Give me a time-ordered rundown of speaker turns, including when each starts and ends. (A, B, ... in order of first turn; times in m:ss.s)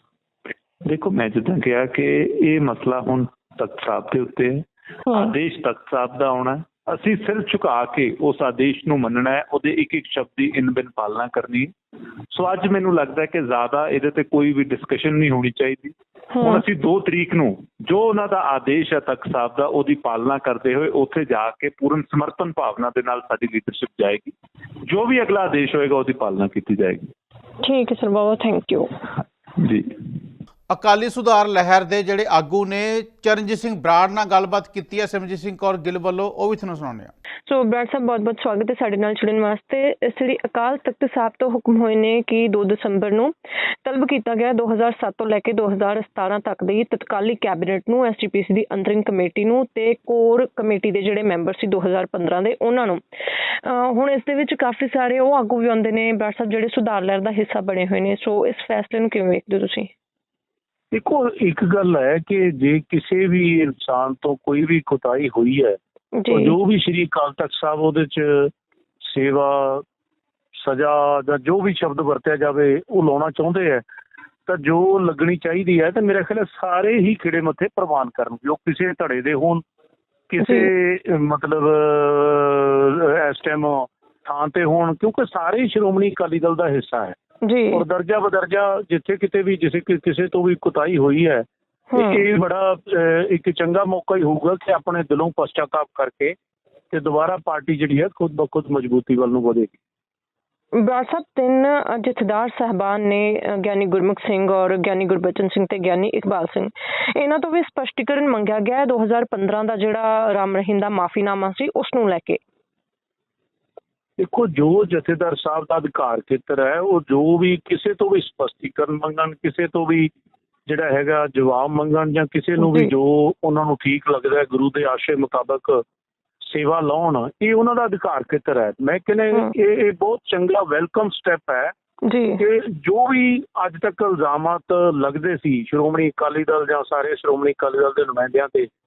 0:00.8-0:11.7 A
0:05.1-0:05.3 B
0:12.3-0:24.3 A
0:16.3-0:16.6 B
0:24.9-0:27.1 A
0:27.6-0:28.9 B
0:29.6-0:30.0 A
0:30.7-0:37.1 C
0:37.5-0:53.0 B
0:53.6-0:59.9 B
1:00.9-1:05.8 D
1:06.1-1:06.6 B
1:06.3-1:08.5 D
1:09.0-1:09.8 D
1:10.6-1:13.8 D
1:14.5-1:19.6 D
1:20.3-1:27.1 D
1:20.4-1:20.7 B
1:27.4-1:27.8 B
1:27.7-1:36.3 D
1:31.9-1:32.2 B
1:36.9-1:39.8 D
1:40.7-1:52.4 B
1:54.2-2:00.1 D
2:00.7-2:05.8 D
2:02.6-2:02.9 B
2:06.5-2:11.7 D
2:12.0-2:12.4 B
2:12.4-2:18.7 D